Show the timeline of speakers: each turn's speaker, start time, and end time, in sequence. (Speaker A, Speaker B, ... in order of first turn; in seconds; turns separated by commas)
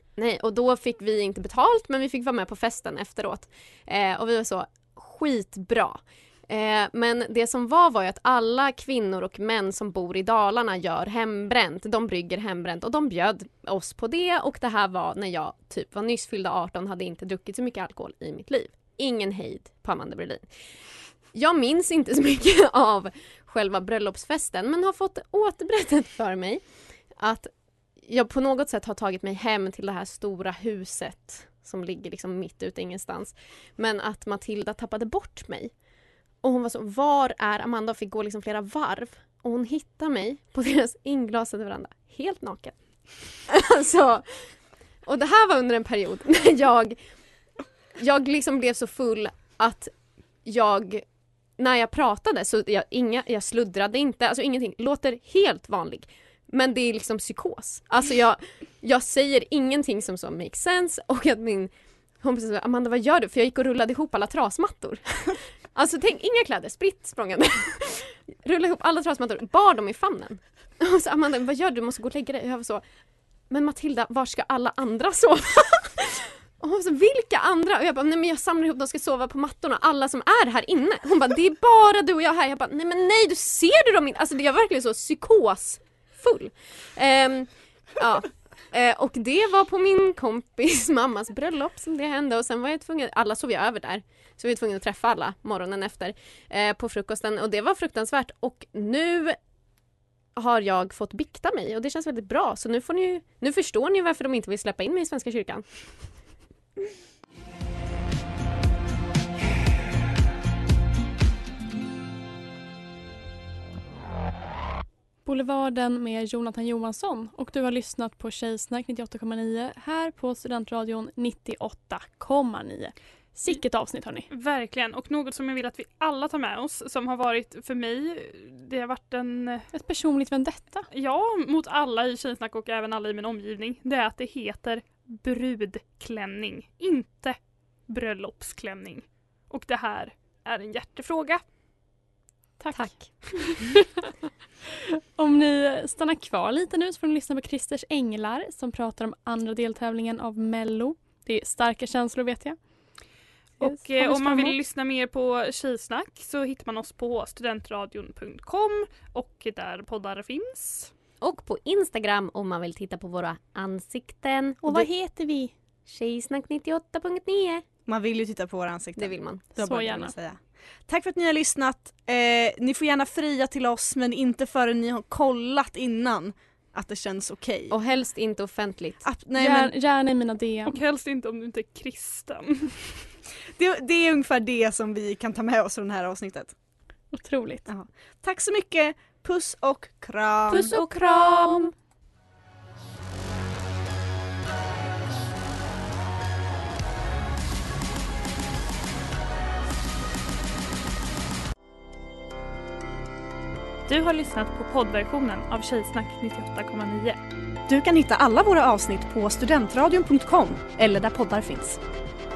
Speaker A: 0.1-20.5, Speaker A: 21.2-35.7, Speaker A: 36.4-47.0, Speaker A: 48.0-49.9, Speaker A: 50.4-51.0, Speaker A: 51.6-72.8, Speaker A: 73.5-99.4, Speaker A: 100.3-106.2, Speaker B: 115.2-124.3, Speaker C: 124.3-129.7, Speaker B: 129.7-130.8, Speaker C: 130.9-141.4, Speaker B: 142.6-143.8, Speaker A: 142.7-143.7, Speaker B: 145.2-152.6, Speaker C: 153.6-160.9, Speaker B: 153.6-154.6, Speaker A: 161.2-164.9, Speaker B: 164.6-165.5, Speaker A: 165.8-167.6, Speaker D: 167.9-177.7, Speaker A: 169.0-169.4, Speaker B: 169.5-170.1, Speaker A: 177.7-179.0, Speaker D: 179.0-179.7, Speaker B: 179.3-180.8, Speaker C: 180.6-182.8, Speaker D: 183.6-186.5, Speaker B: 187.1-187.7, Speaker D: 187.7-190.7, Speaker A: 190.5-191.7, Speaker B: 190.5-191.5, Speaker C: 203.9-207.2, Speaker D: 207.7-211.8